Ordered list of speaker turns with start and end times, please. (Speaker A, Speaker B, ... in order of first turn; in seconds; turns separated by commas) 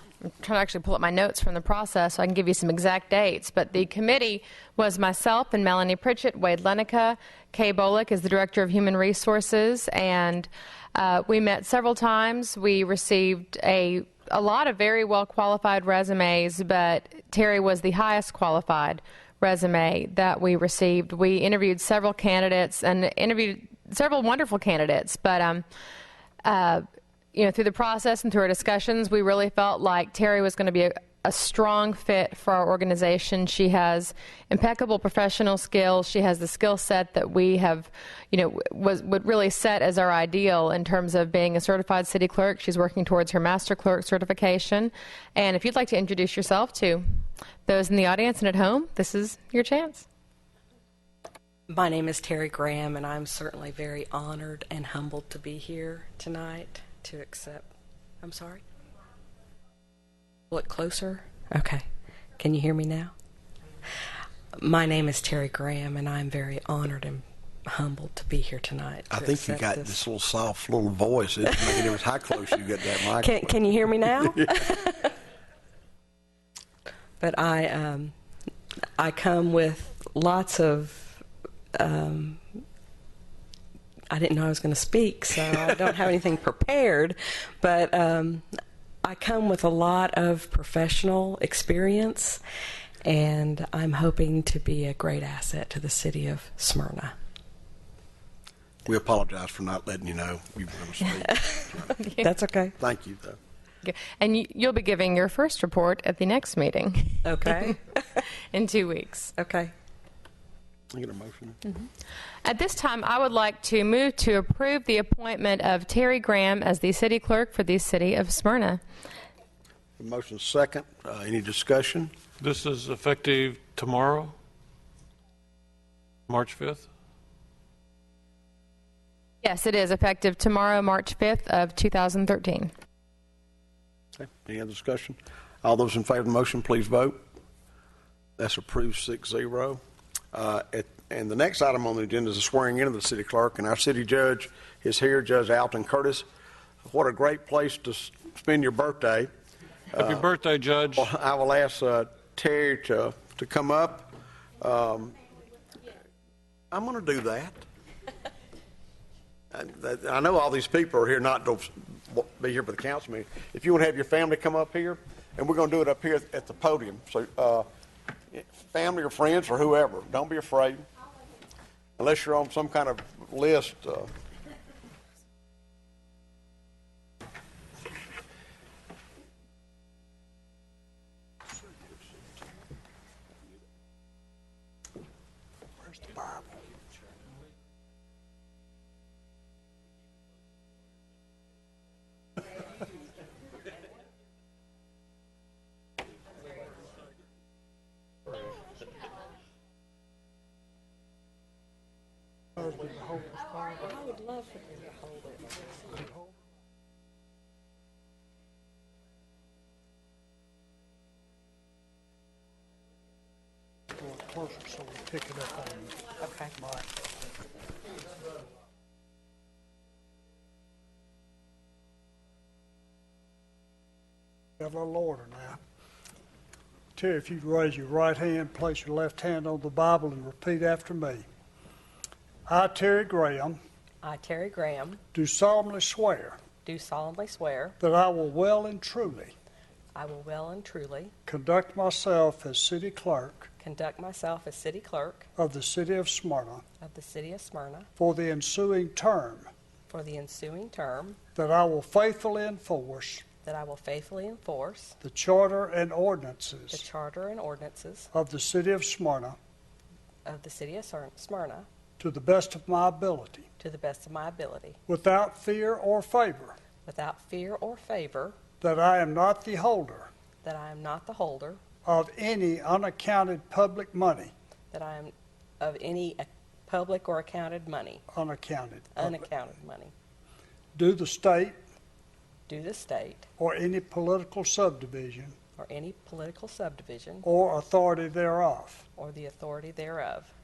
Speaker A: 0.2-25.6, Speaker A: 26.4-47.0, Speaker A: 47.6-50.0, Speaker B: 51.7-57.7, Speaker B: 58.2-58.6, Speaker B: 60.5-61.8, Speaker B: 62.4-63.1, Speaker B: 64.6-70.0, Speaker C: 69.1-73.4, Speaker B: 73.0-75.1, Speaker B: 77.2-78.1, Speaker B: 79.0-81.2, Speaker B: 81.8-82.6, Speaker B: 84.1-88.4, Speaker B: 89.0-92.4, Speaker B: 93.0-97.1, Speaker C: 98.8-102.0, Speaker B: 102.1-102.7, Speaker C: 102.8-103.4, Speaker A: 103.8-107.7, Speaker B: 107.2-108.0, Speaker A: 108.5-109.3, Speaker B: 109.4-109.7, Speaker C: 110.9-111.6, Speaker A: 112.4-118.8, Speaker C: 120.0-122.1, Speaker D: 122.4-124.3, Speaker D: 126.3-126.9, Speaker A: 129.4-132.7, Speaker C: 134.2-137.2, Speaker C: 138.4-139.8, Speaker C: 140.3-146.2, Speaker C: 146.8-149.3, Speaker C: 149.9-150.2, Speaker D: 149.9-151.1, Speaker C: 150.9-155.2, Speaker C: 156.7-157.6, Speaker C: 159.5-167.7, Speaker C: 168.3-170.8, Speaker C: 172.0-174.1, Speaker E: 185.8-186.6, Speaker E: 202.6-203.8, Speaker B: 203.8-206.0, Speaker E: 213.9-216.0, Speaker B: 216.2-216.5, Speaker E: 216.6-216.9, Speaker E: 224.6-225.6, Speaker E: 226.9-231.2, Speaker E: 232.5-233.6, Speaker B: 234.0-235.0, Speaker E: 235.1-236.4, Speaker B: 236.6-237.8, Speaker E: 237.8-239.3, Speaker B: 239.9-241.1, Speaker E: 241.3-243.5, Speaker B: 243.6-245.3, Speaker E: 245.4-246.6, Speaker B: 246.8-247.9, Speaker E: 248.0-249.5, Speaker B: 249.9-251.2, Speaker E: 251.3-253.2, Speaker B: 253.4-254.9, Speaker E: 255.0-256.8, Speaker B: 256.7-258.1, Speaker E: 258.1-259.4, Speaker B: 260.2-261.6, Speaker E: 262.0-263.5, Speaker B: 263.6-264.8, Speaker E: 264.9-266.6, Speaker B: 266.8-268.3, Speaker E: 268.6-270.1, Speaker B: 270.4-271.6, Speaker E: 271.8-274.3, Speaker B: 274.7-278.0, Speaker E: 278.1-279.1, Speaker B: 278.9-279.9, Speaker E: 280.8-281.6, Speaker B: 282.5-283.2, Speaker E: 283.4-285.4, Speaker B: 285.6-287.3, Speaker E: 287.2-288.8, Speaker B: 289.0-290.3